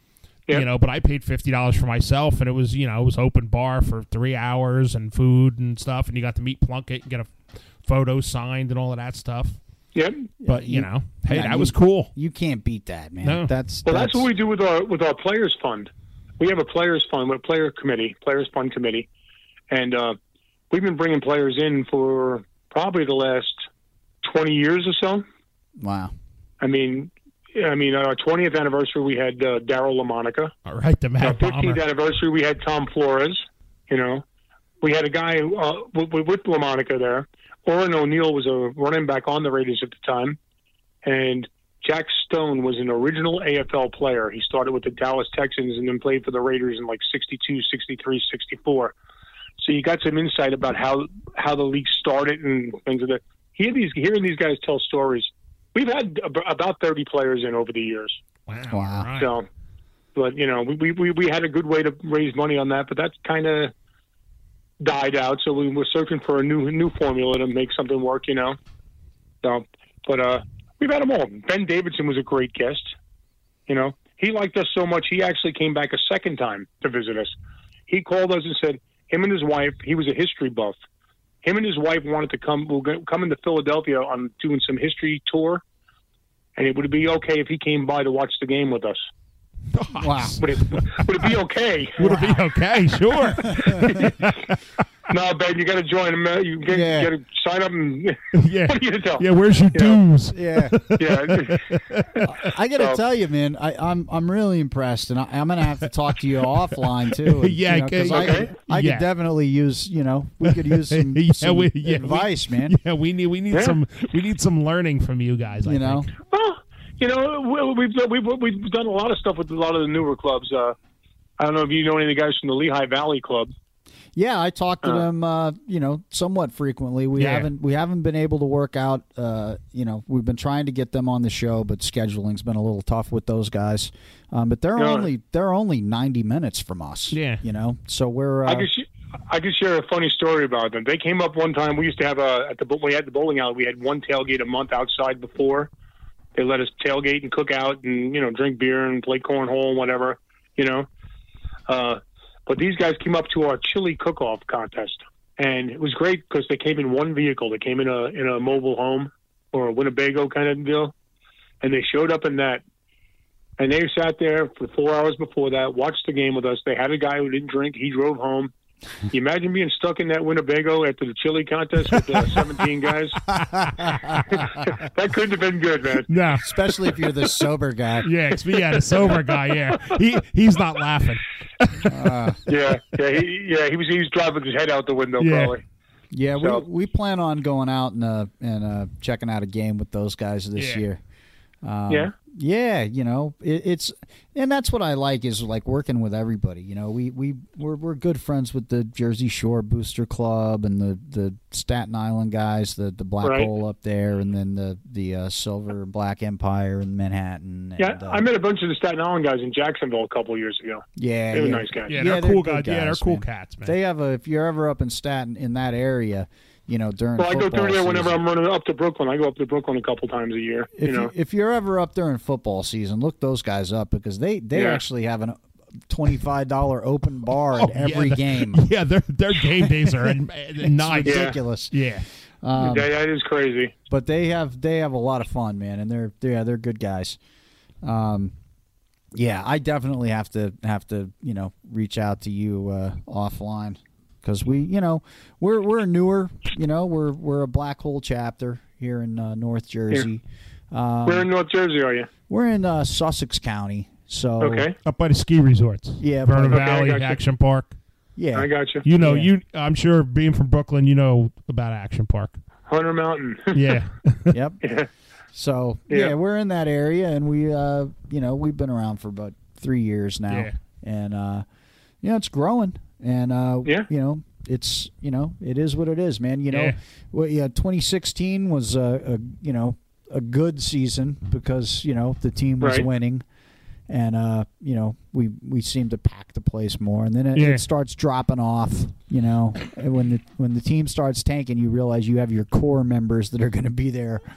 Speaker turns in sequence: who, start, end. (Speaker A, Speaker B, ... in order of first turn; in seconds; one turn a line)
Speaker A: 0.5-9.6
Speaker B: 9.9-10.3
Speaker C: 10.4-14.3
Speaker A: 10.4-12.1
Speaker A: 13.2-13.5
Speaker B: 13.8-19.1
Speaker B: 19.7-20.2
Speaker B: 20.7-23.6
Speaker B: 24.2-25.2
Speaker C: 25.8-26.1
Speaker B: 26.6-30.5
Speaker A: 30.6-31.8
Speaker B: 31.2-34.2
Speaker B: 34.8-40.4
Speaker B: 41.0-48.9
Speaker B: 49.6-58.2
Speaker A: 58.5-59.3
Speaker C: 58.7-59.1
Speaker B: 59.1-59.5
Speaker B: 60.1-63.7
Speaker B: 64.8-68.6
Speaker B: 69.4-72.9
Speaker B: 73.7-77.3
Speaker B: 77.9-80.8
Speaker B: 81.4-85.6
Speaker B: 86.5-89.0
Speaker A: 89.7-91.0
Speaker C: 90.0-90.4
Speaker B: 90.4-92.1
Speaker A: 92.0-94.6
Speaker C: 92.0-92.4
Speaker C: 93.2-94.1
Speaker B: 93.8-94.2
Speaker B: 95.1-100.0
Speaker C: 96.7-97.1
Speaker A: 98.3-102.3
Speaker C: 100.3-100.9
Speaker B: 101.0-101.7
Speaker C: 102.2-112.8
Speaker A: 107.1-109.0
Speaker B: 108.1-108.5
Speaker A: 110.4-116.1
Speaker B: 113.5-113.8
Speaker C: 115.6-116.1
Speaker B: 116.2-120.8
Speaker B: 121.4-123.5
Speaker C: 124.1-138.7
Speaker A: 127.2-127.5
Speaker B: 134.8-135.1
Speaker A: 137.1-137.4
Speaker B: 138.4-145.7
Speaker B: 146.3-150.9
Speaker B: 151.7-160.9
Speaker B: 161.6-162.6
Speaker B: 163.6-168.5
Speaker B: 169.1-173.2
Speaker C: 173.5-174.1
Speaker B: 174.3-176.1
Speaker A: 176.1-176.4
Speaker C: 176.4-178.1
Speaker A: 178.0-182.1
Speaker C: 181.8-182.4
Speaker B: 182.4-185.6
Speaker A: 185.2-185.5
Speaker C: 186.1-191.0
Speaker B: 186.4-186.6
Speaker A: 190.6-190.8
Speaker C: 191.6-208.2
Speaker B: 203.2-203.5
Speaker B: 207.8-211.9
Speaker C: 211.0-218.2
Speaker A: 211.9-213.7
Speaker B: 217.2-221.1
Speaker C: 220.8-228.6
Speaker B: 224.5-224.8
Speaker A: 227.5-232.1
Speaker C: 229.3-231.8
Speaker B: 231.0-231.4
Speaker C: 232.4-232.9
Speaker B: 232.6-233.7
Speaker C: 233.9-237.2
Speaker C: 237.8-238.3
Speaker C: 239.1-251.3
Speaker B: 251.1-252.1
Speaker C: 252.3-254.7
Speaker B: 254.4-254.7
Speaker A: 254.8-257.7
Speaker C: 256.0-256.6
Speaker B: 256.5-257.2
Speaker C: 258.1-259.3
Speaker B: 258.3-258.9
Speaker A: 258.8-262.4
Speaker B: 262.7-263.8
Speaker A: 263.5-264.3
Speaker C: 264.3-264.6
Speaker B: 264.6-264.9
Speaker C: 265.3-271.4
Speaker A: 270.3-270.5
Speaker C: 272.0-283.2
Speaker A: 276.5-276.8
Speaker B: 282.6-282.9
Speaker C: 283.9-294.2
Speaker A: 287.3-287.6